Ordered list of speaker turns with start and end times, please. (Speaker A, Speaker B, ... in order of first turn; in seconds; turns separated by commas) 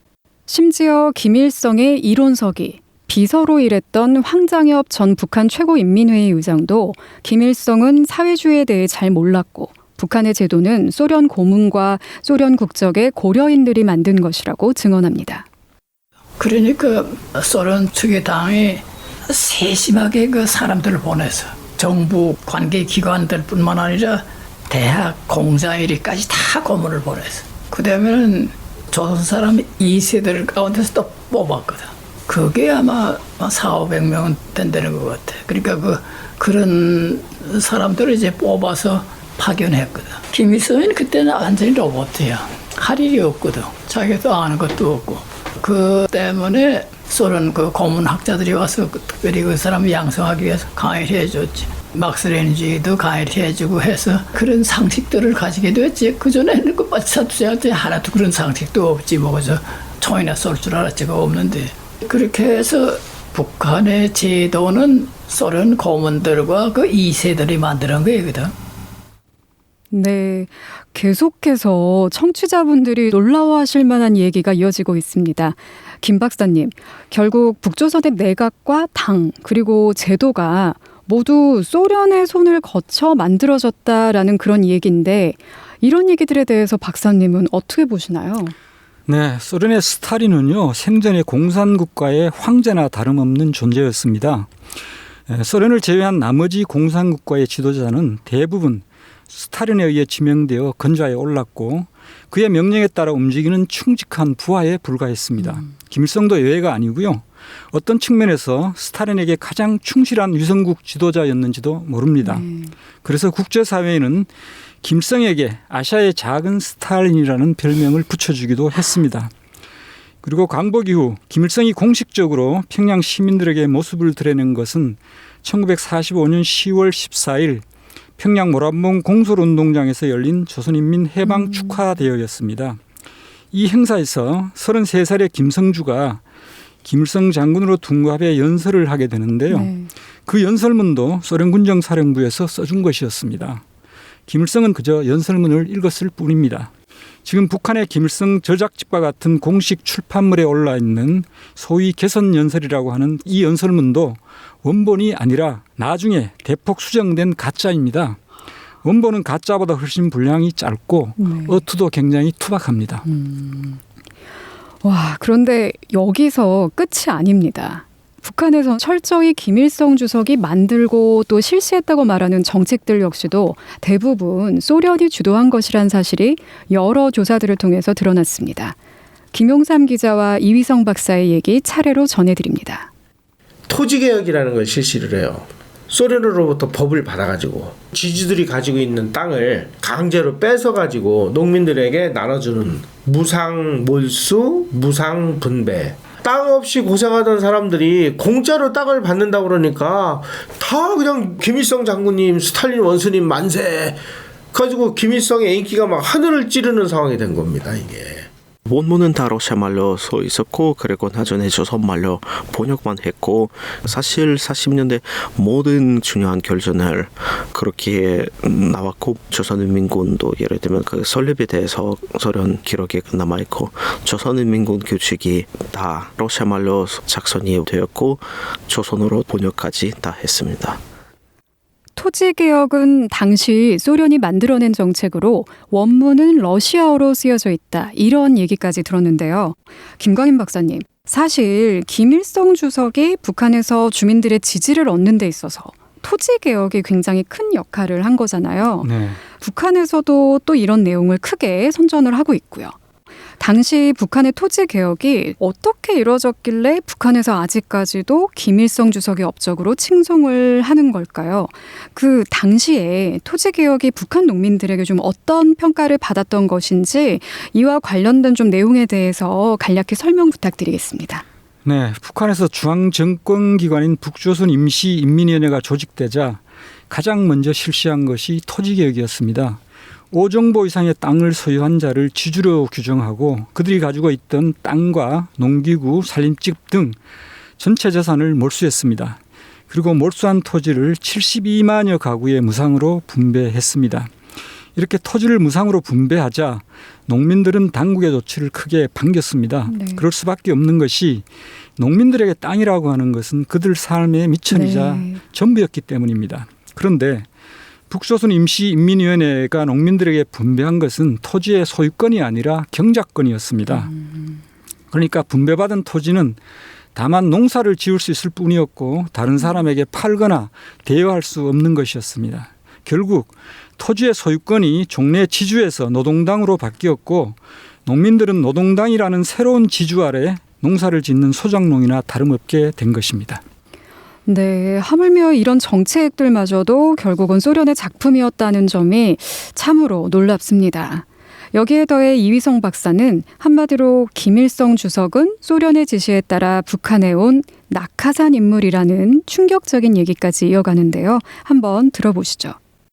Speaker A: 0.5-15.5, Speaker B: 16.4-68.5, Speaker A: 69.9-88.5, Speaker C: 89.1-94.5, Speaker C: 95.3-112.5, Speaker A: 112.2-112.7, Speaker C: 113.0-114.3, Speaker C: 114.8-119.3, Speaker C: 120.2-127.6, Speaker C: 128.2-132.8, Speaker A: 131.4-131.8, Speaker C: 133.5-136.2, Speaker C: 136.8-139.7, Speaker A: 139.5-139.9, Speaker C: 140.3-143.6, Speaker C: 144.3-146.7, Speaker C: 147.2-158.2, Speaker C: 158.8-163.1, Speaker A: 161.2-161.6, Speaker A: 163.1-163.8, Speaker A: 164.8-178.8, Speaker A: 179.3-182.9, Speaker D: 183.7-204.0, Speaker D: 204.5-208.3, Speaker E: 208.7-230.8, Speaker A: 232.0-252.8, Speaker C: 248.8-249.2, Speaker A: 253.4-271.2, Speaker C: 271.6-279.6, Speaker C: 280.1-287.0, Speaker C: 287.6-294.1, Speaker C: 294.8-301.2, Speaker A: 299.7-300.0, Speaker C: 301.8-307.3, Speaker A: 304.5-305.2, Speaker C: 307.9-313.9, Speaker C: 314.9-316.4, Speaker C: 316.9-333.4, Speaker A: 334.3-352.6